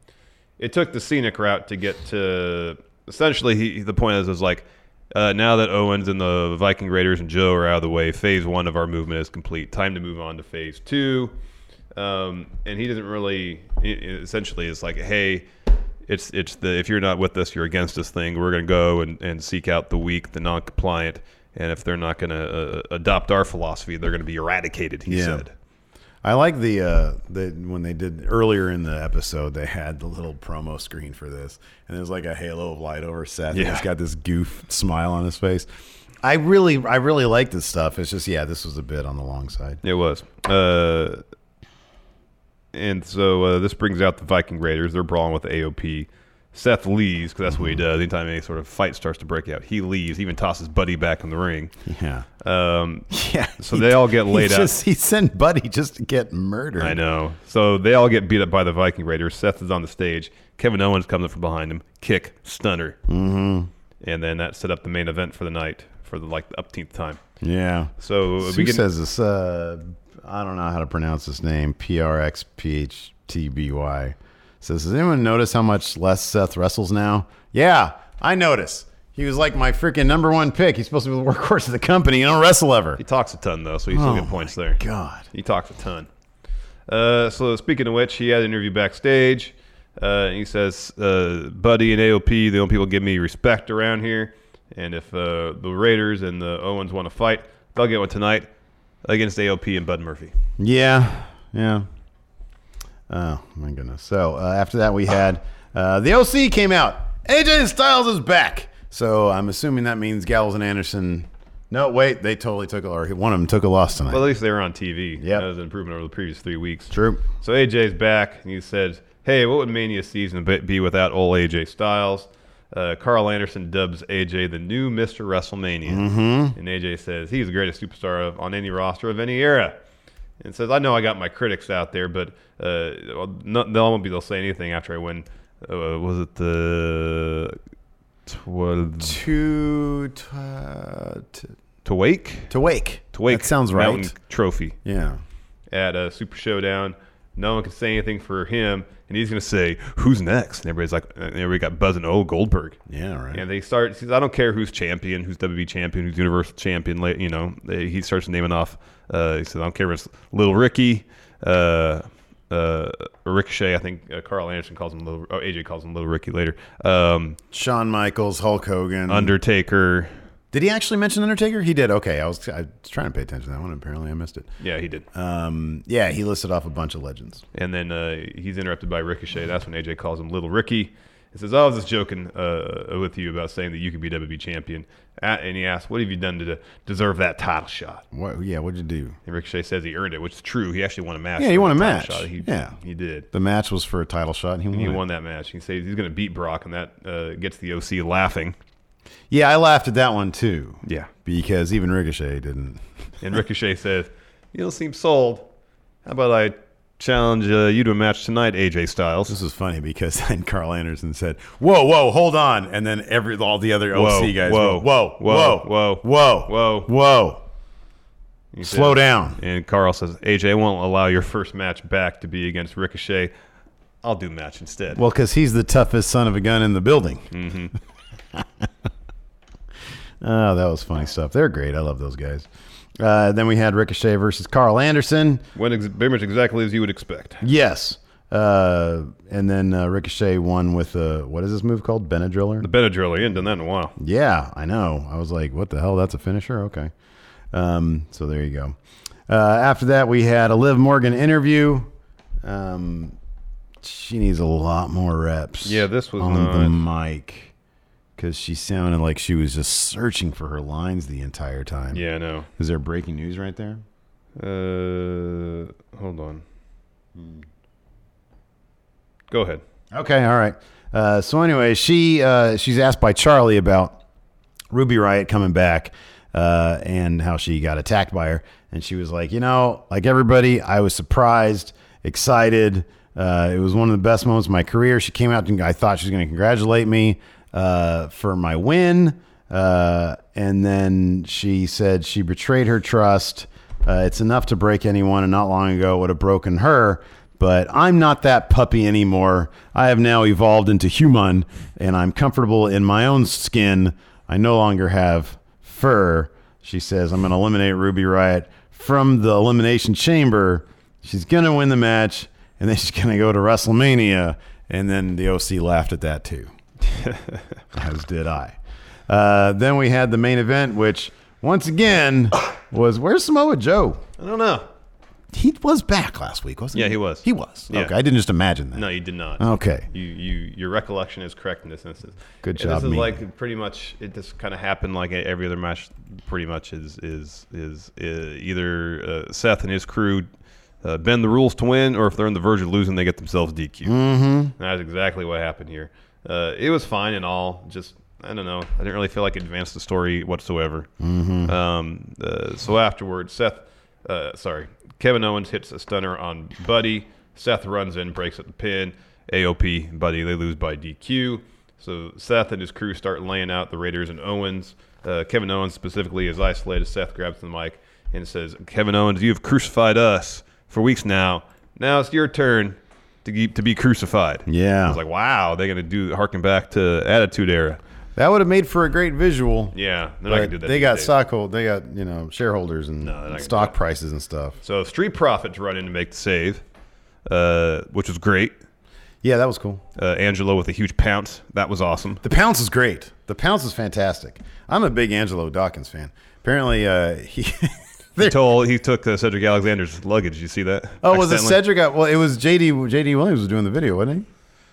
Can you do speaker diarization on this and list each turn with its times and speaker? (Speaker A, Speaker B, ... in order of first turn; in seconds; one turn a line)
Speaker A: 0.6-11.3
Speaker A: 11.9-15.5
Speaker A: 16.1-25.5
Speaker B: 25.1-25.4
Speaker B: 26.2-35.7
Speaker A: 33.5-33.9
Speaker B: 36.2-39.8
Speaker A: 39.8-41.2
Speaker A: 42.7-51.7
Speaker B: 47.5-47.8
Speaker B: 51.9-52.3
Speaker A: 52.4-53.1
Speaker B: 53.1-57.0
Speaker A: 53.6-54.7
Speaker A: 56.8-63.0
Speaker B: 63.1-63.7
Speaker A: 64.0-67.2
Speaker B: 67.4-83.0
Speaker A: 68.0-68.8
Speaker A: 83.0-84.8
Speaker B: 83.9-85.3
Speaker A: 85.3-86.1
Speaker A: 86.9-98.5
Speaker A: 99.0-100.3
Speaker B: 100.6-101.9
Speaker B: 103.1-114.3
Speaker A: 114.1-129.8
Speaker B: 115.2-115.5
Speaker B: 116.9-117.2
Speaker B: 125.8-126.5
Speaker A: 130.4-137.6
Speaker A: 138.2-139.2
Speaker B: 139.0-141.5
Speaker A: 141.8-142.5
Speaker B: 142.5-144.1
Speaker A: 143.1-144.8
Speaker B: 144.8-145.2
Speaker A: 145.7-152.8
Speaker B: 152.9-153.4
Speaker A: 153.3-167.4
Speaker B: 167.5-169.3
Speaker A: 169.1-170.1
Speaker B: 170.5-174.5
Speaker A: 174.6-175.0
Speaker B: 175.1-177.4
Speaker A: 177.5-188.0
Speaker B: 188.1-189.1
Speaker A: 189.2-193.3
Speaker B: 191.4-192.8
Speaker B: 193.3-195.0
Speaker A: 194.7-198.6
Speaker B: 199.3-202.8
Speaker A: 203.2-205.5
Speaker A: 206.0-209.3
Speaker B: 209.3-217.4
Speaker A: 213.9-216.9
Speaker A: 218.5-223.3
Speaker B: 218.6-219.4
Speaker A: 224.0-225.0
Speaker B: 224.9-227.3
Speaker A: 227.3-227.7
Speaker B: 230.2-232.5
Speaker B: 233.0-235.4
Speaker A: 235.6-237.4
Speaker B: 237.4-242.7
Speaker A: 242.6-243.9
Speaker B: 244.0-246.9
Speaker B: 247.5-248.8
Speaker B: 249.3-251.9
Speaker B: 252.4-253.2
Speaker B: 253.8-257.5
Speaker A: 255.6-256.8
Speaker B: 258.1-262.0
Speaker A: 261.9-262.5
Speaker B: 262.6-263.8
Speaker A: 264.4-266.4
Speaker B: 267.1-267.4
Speaker A: 269.3-269.6
Speaker B: 269.9-274.0
Speaker B: 274.7-316.5
Speaker A: 316.9-317.4
Speaker B: 317.7-318.6
Speaker B: 319.1-324.0
Speaker A: 324.2-324.7
Speaker B: 325.3-328.9
Speaker A: 326.7-327.9
Speaker A: 328.7-340.3
Speaker B: 329.4-329.9
Speaker B: 332.4-333.2
Speaker A: 340.8-343.9
Speaker B: 343.8-344.5
Speaker A: 344.6-350.9
Speaker B: 351.0-351.6
Speaker A: 351.4-377.8
Speaker B: 374.5-375.0
Speaker B: 378.1-384.6
Speaker A: 379.7-381.1
Speaker A: 383.0-383.7
Speaker A: 384.6-386.6
Speaker A: 387.3-388.5
Speaker B: 389.2-389.8
Speaker A: 389.9-392.2
Speaker B: 392.2-398.4
Speaker A: 398.2-401.6
Speaker B: 401.0-404.3